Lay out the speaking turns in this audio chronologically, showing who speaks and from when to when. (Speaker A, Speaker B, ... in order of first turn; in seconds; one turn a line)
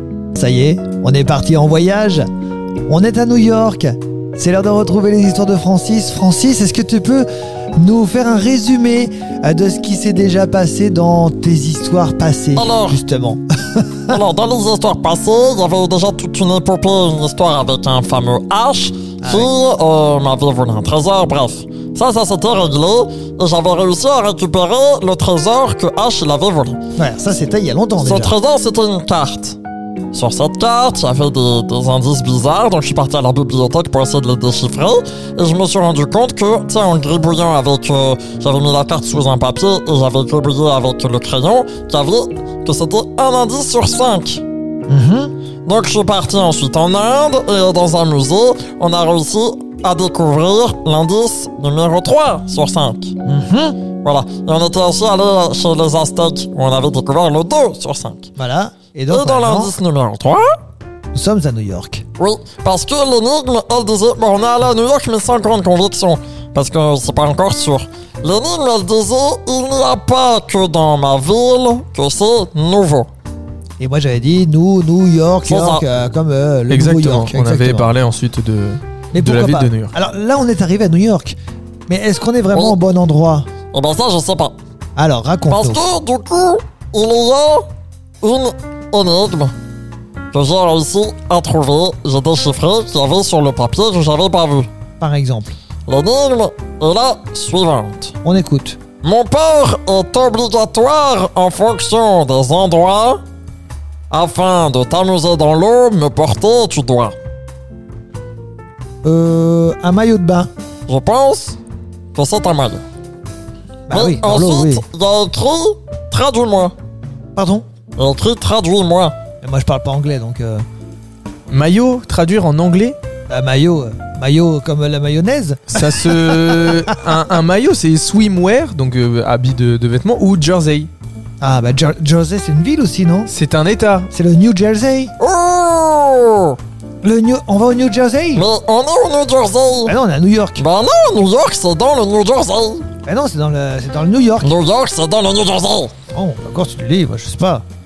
Speaker A: 0.3-2.3
Speaker A: 2.9-14.2
Speaker B: 12.6-13.0
Speaker B: 14.1-26.8
Speaker A: 19.2-19.5
Speaker A: 27.0-28.3
Speaker B: 28.0-29.6
Speaker B: 30.1-44.4
Speaker A: 44.9-45.3
Speaker B: 45.6-53.1
Speaker A: 53.2-53.8
Speaker B: 54.0-58.3
Speaker A: 58.4-59.8
Speaker B: 59.1-60.5
Speaker A: 61.1-62.0
Speaker B: 62.2-73.1
Speaker A: 73.8-77.9
Speaker B: 75.5-75.8
Speaker C: 76.7-79.9
Speaker A: 79.1-81.4
Speaker A: 81.9-83.5
Speaker B: 83.7-84.5
Speaker A: 85.0-85.8
Speaker B: 85.5-87.7
Speaker B: 88.2-89.5
Speaker B: 90.3-94.7
Speaker A: 95.0-95.5
Speaker B: 95.9-98.1
Speaker A: 98.2-98.8
Speaker B: 99.0-103.2
Speaker B: 104.1-107.2
Speaker A: 109.0-110.5
Speaker B: 110.9-111.6
Speaker B: 112.1-112.8
Speaker A: 113.9-114.8
Speaker B: 113.9-116.7
Speaker A: 117.3-117.6
Speaker B: 118.0-119.2
Speaker A: 119.4-120.6
Speaker C: 121.5-123.0
Speaker A: 123.3-126.9
Speaker C: 125.7-130.9
Speaker A: 131.4-133.3
Speaker C: 133.3-134.1
Speaker A: 134.1-135.1
Speaker B: 135.2-136.6
Speaker A: 137.0-138.4
Speaker B: 138.3-139.9
Speaker A: 139.8-140.6
Speaker B: 140.6-142.9
Speaker A: 143.1-144.5
Speaker B: 144.4-145.9
Speaker A: 146.1-147.6